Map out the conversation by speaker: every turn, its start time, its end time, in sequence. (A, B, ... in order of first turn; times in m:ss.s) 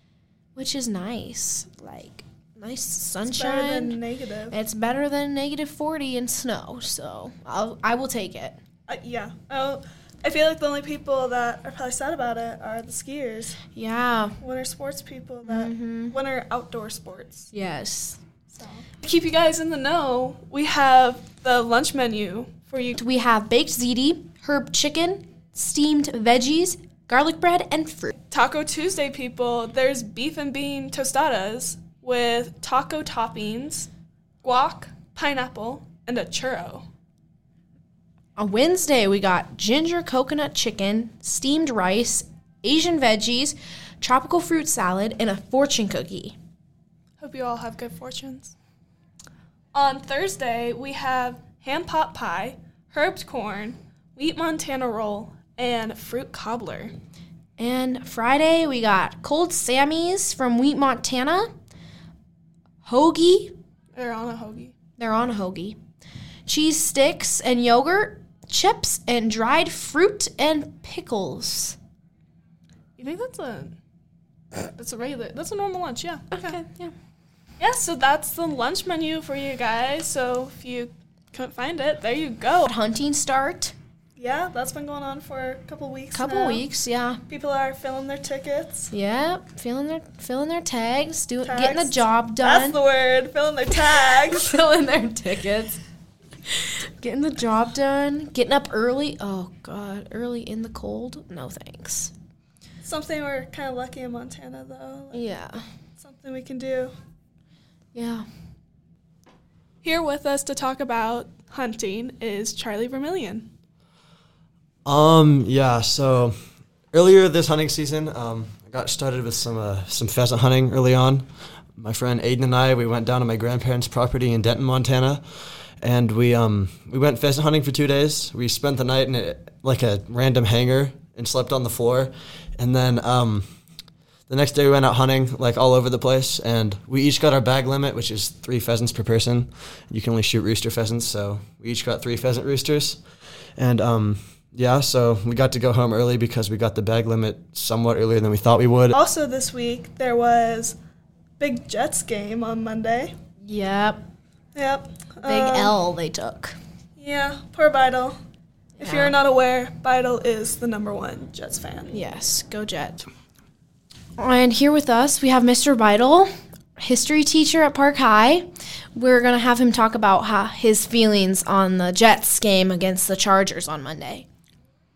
0:00.6-0:04.0 A
0:03.3-0:04.6 B
0:04.5-0:08.6 A
0:08.9-0:13.6 B
0:13.7-0:14.4 A
0:14.4-0:17.5 B
0:15.5-0:16.2 A
0:17.5-0:18.2 A
0:18.5-0:23.0 B
0:23.0-0:28.2 A
0:28.3-0:33.9 B
0:34.4-0:36.8 B
0:38.4-0:46.4 A
0:47.2-0:48.6 B
0:49.7-0:56.9 B
0:57.6-1:01.5 A
1:02.8-1:03.5 A
1:03.9-1:04.7 B
1:05.0-1:05.8 A
1:06.5-1:11.8 A
1:13.0-1:13.8 B
1:14.7-1:16.6 B
1:16.3-1:16.9 A
1:17.6-1:22.7 B
1:22.6-1:23.7 A
1:24.2-1:26.6 B
1:26.1-1:27.2 A
1:27.3-1:28.9 B
1:28.9-1:32.8 A
1:31.4-1:34.5 B
1:34.2-1:35.8 A
1:37.0-1:42.1 A
1:42.8-1:45.2 B
1:45.1-1:45.6 A
1:46.0-1:46.9 B
1:47.9-1:48.3 A
1:49.8-1:53.5 B
1:54.8-1:56.4 C
1:56.9-2:05.2 C
2:05.8-2:13.5 C
2:14.3-2:23.0 C
2:23.6-2:29.0 C
2:28.9-2:30.8 B
2:31.4-2:33.1 B
2:33.4-2:34.1 A
2:34.6-2:35.8 B
2:35.2-2:36.6 A
2:37.0-2:38.2 B
2:38.8-2:39.2 A
2:38.8-2:42.0 B
2:41.9-2:43.0 A
2:44.2-2:54.3 A